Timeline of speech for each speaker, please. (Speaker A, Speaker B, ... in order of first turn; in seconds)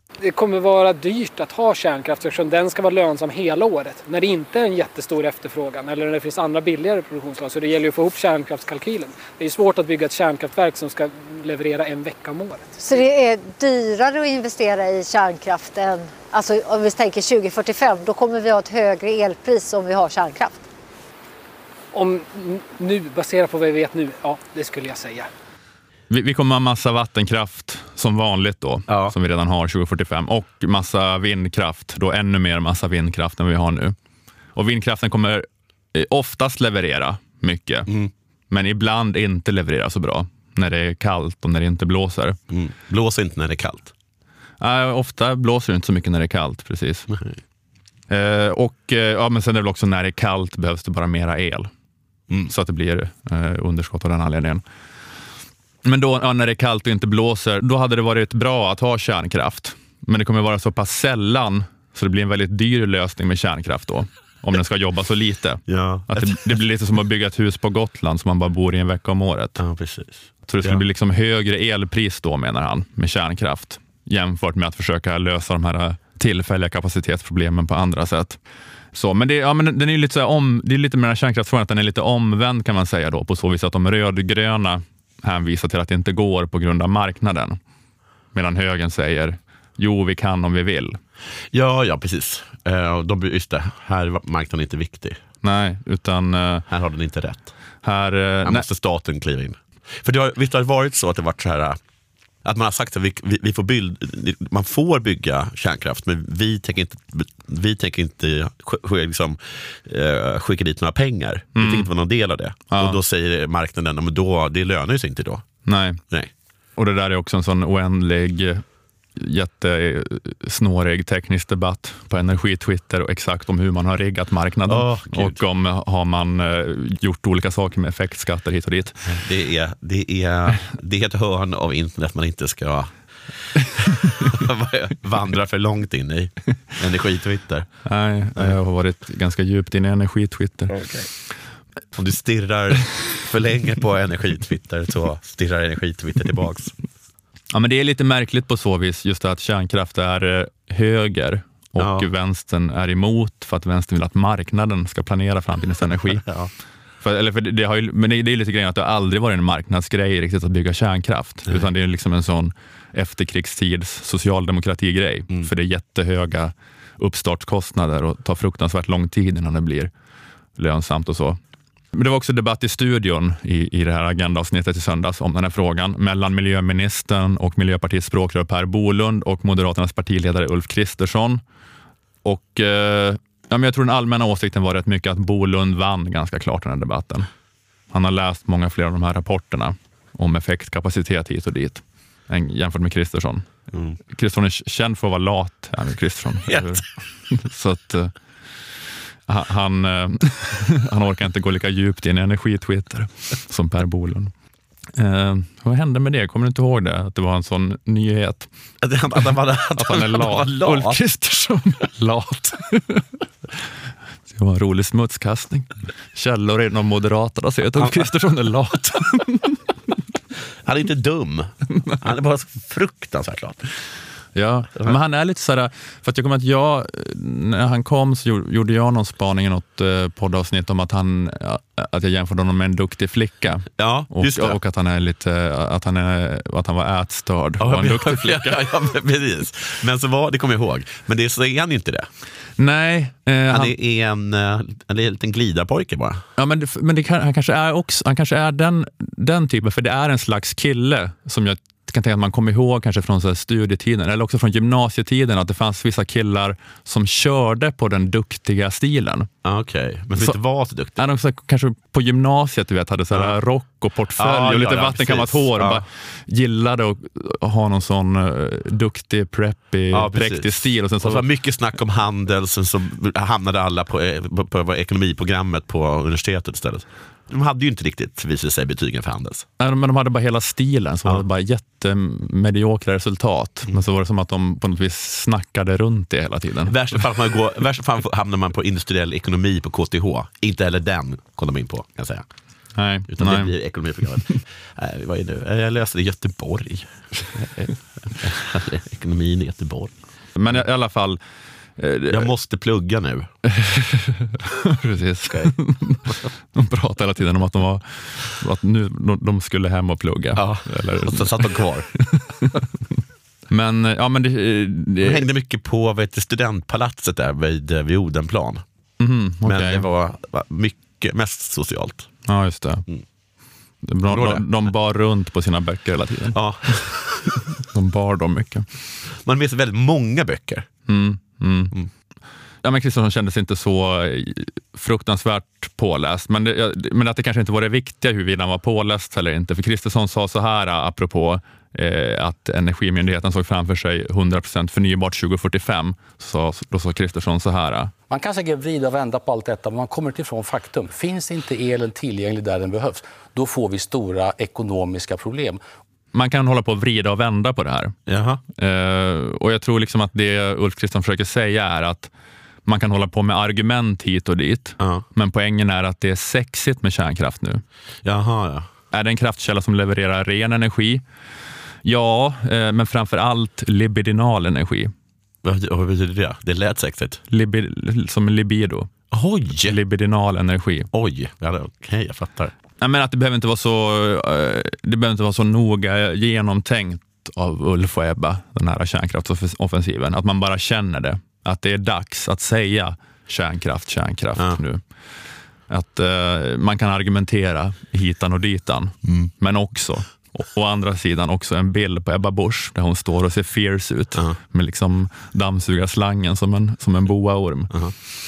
Speaker A: 0.2-12.8, 21.9-25.3
Speaker B: 12.8-20.6
Speaker C: 26.1-34.0, 34.6-37.9, 38.5-42.4, 44.6-47.1, 48.1-51.7, 52.5-54.6, 55.9-69.6, 70.5-78.4, 78.9-87.6, 88.3-91.0, 95.4-96.7, 97.8-98.7, 111.5-111.9, 112.7-113.0, 115.7-116.0, 116.8-118.6, 119.2-129.2, 137.8-140.9, 147.5-156.3, 157.0-169.9, 170.6-171.4, 171.9-181.4, 182.2-187.3, 187.9-193.5, 194.1-198.1, 199.3-204.3, 205.0-208.5, 209.8-213.1, 214.3-219.6, 224.3-238.6, 242.6-243.8, 246.4-259.3, 261.0-271.3, 279.6-286.8, 292.8-293.5, 300.4-301.2, 301.8-302.3, 303.4-312.7, 313.5-315.2, 319.0-319.9, 322.3-322.9, 323.8-326.9, 327.6-328.7, 330.9-331.7, 332.6-347.9, 356.1-357.9, 358.6-362.1, 362.7-367.6, 368.9-371.0, 371.8-374.9, 377.3-378.9, 379.6-380.9, 382.8-394.8, 395.7-407.8
Speaker D: 28.9-29.1, 42.5-43.9, 47.1-47.4, 65.7-66.4, 69.6-70.8, 91.5-95.2, 96.7-97.5, 98.4-101.8, 102.4-115.5, 124.7-125.4, 129.1-132.9, 133.5-137.7, 140.7-141.1, 141.9-146.7, 151.8-152.1, 156.2-156.5, 193.7-194.0, 196.5-196.8, 208.8-211.0, 217.8-218.1, 220.6-223.7, 233.8-234.6, 237.6-242.1, 243.5-246.2, 259.4-261.0, 263.1-263.4, 264.2-265.8, 269.9-279.4, 286.7-292.2, 293.1-297.4, 298.1-299.9, 302.1-303.3, 305.3-305.5, 310.4-311.9, 315.0-318.6, 319.4-322.1, 324.1-324.5, 326.3-327.4, 329.2-330.7, 358.1-358.4, 364.8-365.0, 368.0-368.7, 375.4-377.2, 379.1-379.8, 380.9-382.5, 399.1-399.3
Speaker E: 348.1-355.6